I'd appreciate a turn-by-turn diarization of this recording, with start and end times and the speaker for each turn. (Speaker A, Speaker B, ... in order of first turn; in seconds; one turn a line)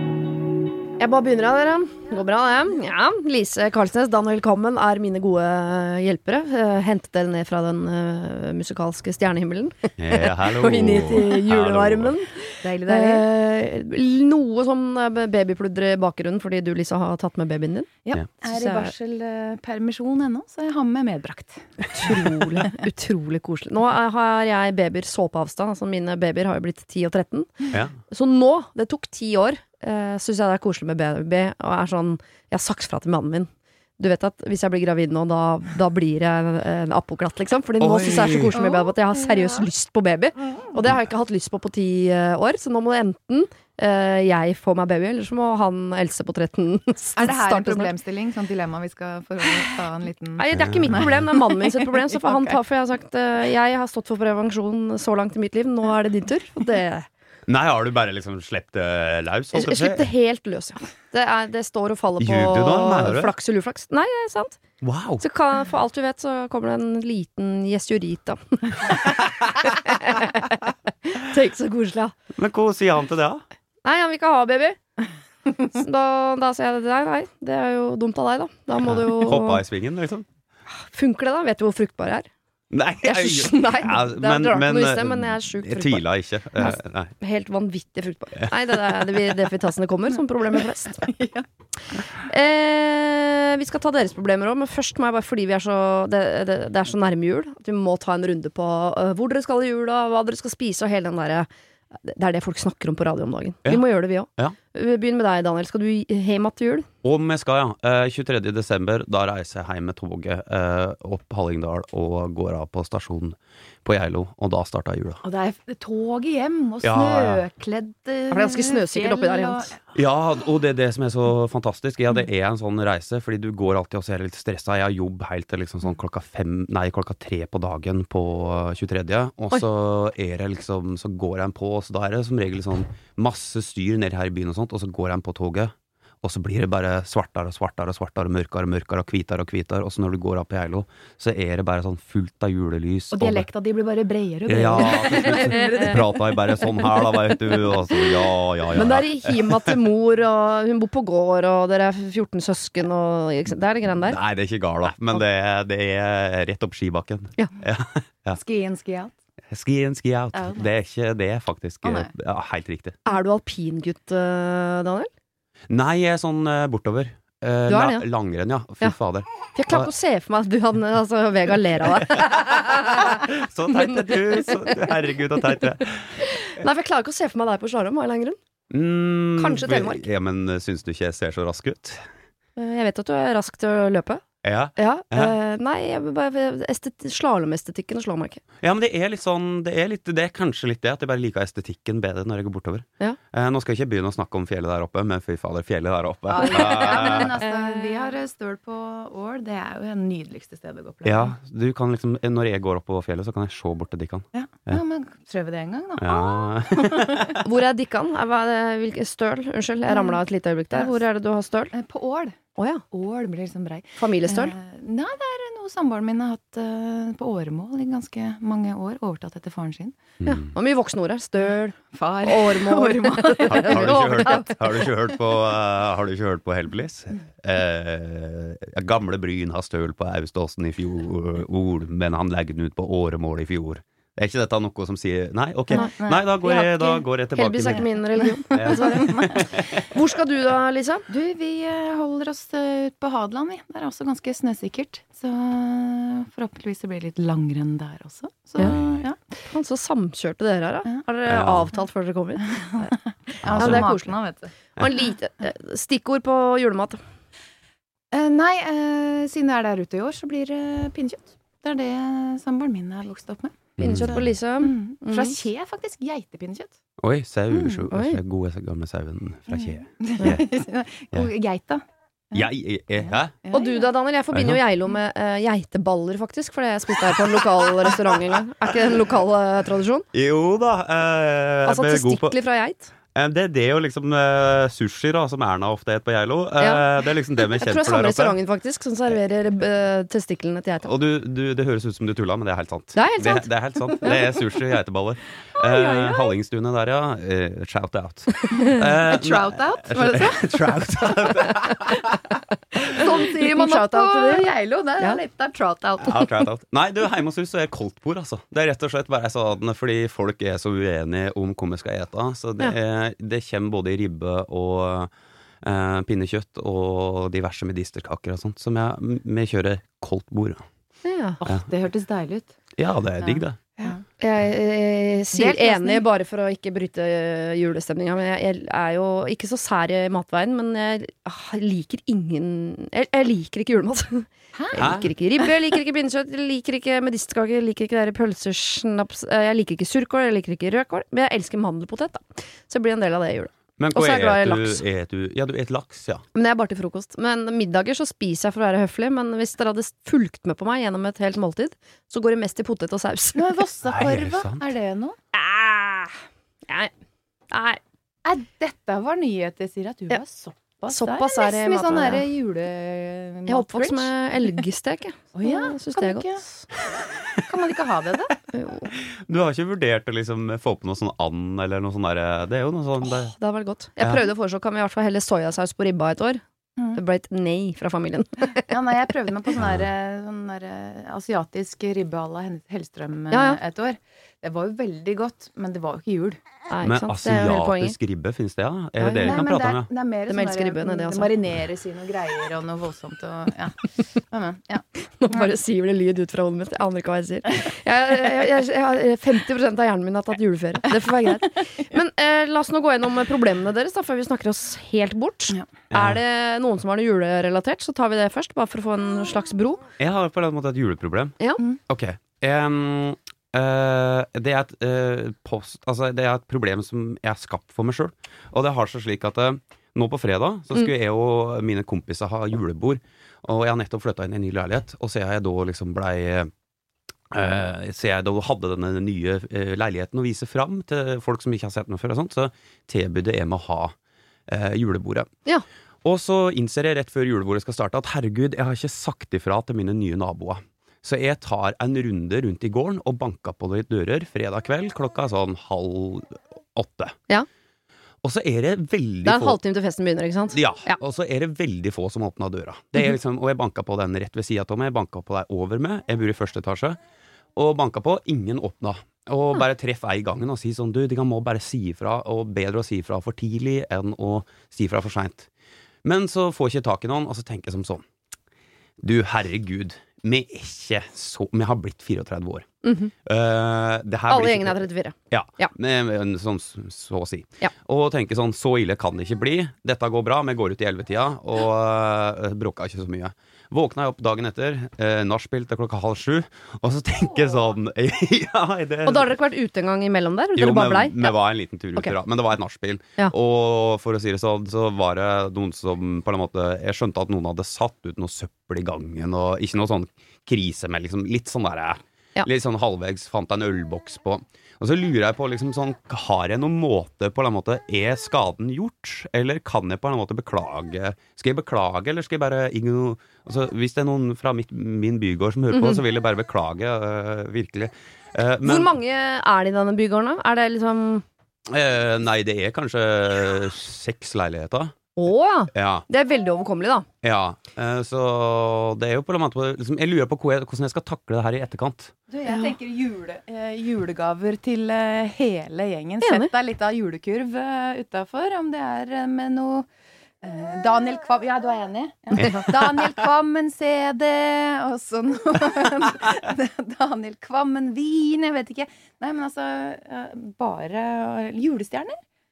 Speaker A: 1.0-17.9
Speaker B: 10.0-12.2
Speaker C: 12.6-13.2
Speaker C: 18.1-22.7
Speaker A: 18.5-18.9
Speaker A: 21.8-47.9
Speaker B: 37.8-38.6
Speaker C: 38.5-39.7
Speaker C: 47.2-52.6
Speaker A: 50.4-57.1
Speaker B: 50.5-51.2
Speaker B: 57.5-60.1
Speaker A: 59.5-64.6
Speaker B: 62.2-63.3
Speaker B: 64.8-65.2
Speaker A: 65.2-72.1
Speaker B: 72.4-73.4
Speaker A: 73.8-74.8
Speaker A: 75.6-79.6
Speaker B: 78.8-80.3
Speaker A: 80.9-82.3
Speaker B: 82.7-87.1
Speaker A: 83.0-91.1
Speaker B: 88.4-89.2
Speaker C: 91.0-91.5
Speaker A: 92.0-106.9
Speaker B: 107.0-115.2
Speaker C: 115.2-119.8
Speaker B: 116.8-117.4
Speaker A: 118.3-119.7
Speaker B: 119.9-143.5
Speaker C: 143.1-146.8
Speaker B: 144.5-149.8
Speaker A: 148.7-154.2
Speaker B: 154.0-158.4
Speaker C: 158.3-159.1
Speaker B: 159.5-163.0
Speaker C: 160.3-160.7
Speaker C: 161.8-162.1
Speaker A: 163.1-165.1
Speaker B: 165.7-169.9
Speaker A: 167.7-168.1
Speaker A: 169.6-173.2
Speaker B: 172.9-176.2
Speaker A: 176.2-178.4
Speaker B: 178.7-182.0
Speaker A: 179.4-180.1
Speaker A: 182.6-184.2
Speaker B: 184.4-185.4
Speaker A: 184.8-188.4
Speaker B: 188.6-197.4
Speaker C: 196.3-201.3
Speaker B: 201.1-204.8
Speaker C: 204.3-207.1
Speaker B: 206.0-207.4
Speaker A: 207.4-211.7
Speaker C: 209.9-210.2
Speaker C: 210.7-211.0
Speaker C: 211.7-212.4
Speaker A: 212.6-212.8
Speaker C: 212.9-220.0
Speaker A: 214.0-214.6
Speaker A: 220.2-224.5
Speaker C: 221.9-224.4
Speaker B: 223.5-237.8
Speaker C: 235.7-236.3
Speaker A: 235.7-241.1
Speaker C: 238.5-239.4
Speaker B: 238.5-239.6
Speaker C: 241.1-249.2
Speaker A: 249.5-252.9
Speaker B: 251.3-251.7
Speaker C: 252.8-254.5
Speaker B: 253.5-253.9
Speaker A: 253.5-254.1
Speaker A: 254.8-257.0
Speaker C: 258.1-266.7
Speaker B: 263.8-264.3
Speaker A: 263.8-265.4
Speaker B: 267.0-270.5
Speaker C: 267.5-267.9
Speaker A: 267.9-268.2
Speaker C: 269.5-272.5
Speaker B: 272.3-273.3
Speaker C: 273.0-273.8
Speaker A: 273.5-280.1
Speaker B: 274.3-274.6
Speaker B: 280.1-282.4
Speaker A: 281.6-282.9
Speaker B: 283.1-288.4
Speaker A: 286.6-286.9
Speaker A: 287.6-290.9
Speaker B: 290.9-302.1
Speaker A: 292.9-294.4
Speaker A: 295.6-296.4
Speaker C: 298.6-301.4
Speaker C: 302.8-306.3
Speaker A: 302.9-304.5
Speaker B: 306.0-315.1
Speaker B: 315.6-320.6
Speaker A: 321.0-321.4
Speaker C: 321.4-322.5
Speaker B: 322.8-323.6
Speaker A: 324.2-344.8
Speaker C: 325.3-326.1
Speaker B: 334.8-335.1
Speaker B: 343.8-346.2
Speaker A: 346.4-353.6
Speaker C: 353.4-355.2
Speaker B: 353.9-354.7
Speaker A: 355.3-356.1
Speaker A: 357.5-357.8
Speaker C: 358.2-364.1
Speaker A: 360.9-362.2
Speaker A: 363.5-366.7
Speaker C: 365.3-366.4
Speaker C: 367.4-368.4
Speaker A: 368.5-368.9
Speaker B: 368.9-373.4
Speaker A: 373.0-376.4
Speaker B: 374.0-374.2
Speaker A: 376.9-378.7
Speaker C: 378.4-386.4
Speaker B: 379.6-379.9
Speaker A: 383.3-383.6
Speaker A: 386.7-388.0
Speaker B: 386.8-389.9
Speaker A: 389.0-389.5
Speaker C: 389.2-395.5
Speaker A: 390.3-391.4
Speaker A: 395.2-409.8
Speaker B: 405.9-406.2
Speaker B: 410.0-411.4
Speaker B: 411.9-426.5
Speaker B: 427.3-433.9
Speaker B: 434.5-435.3
Speaker B: 436.0-447.1
Speaker B: 448.2-449.6
Speaker A: 449.2-450.9
Speaker B: 450.5-457.0
Speaker B: 457.6-465.5
Speaker B: 466.0-468.0
Speaker B: 469.0-472.6
Speaker A: 472.8-473.1
Speaker B: 473.3-489.3
Speaker A: 474.3-475.7
Speaker A: 489.1-491.4
Speaker B: 490.6-519.0
Speaker A: 515.7-516.0
Speaker A: 518.6-521.2
Speaker B: 521.7-525.0
Speaker A: 525.2-527.1
Speaker B: 525.7-526.1
Speaker B: 527.2-532.1
Speaker C: 532.3-539.9
Speaker A: 532.5-532.7
Speaker A: 536.2-536.5
Speaker C: 540.4-552.2
Speaker A: 542.4-542.6
Speaker B: 542.4-542.8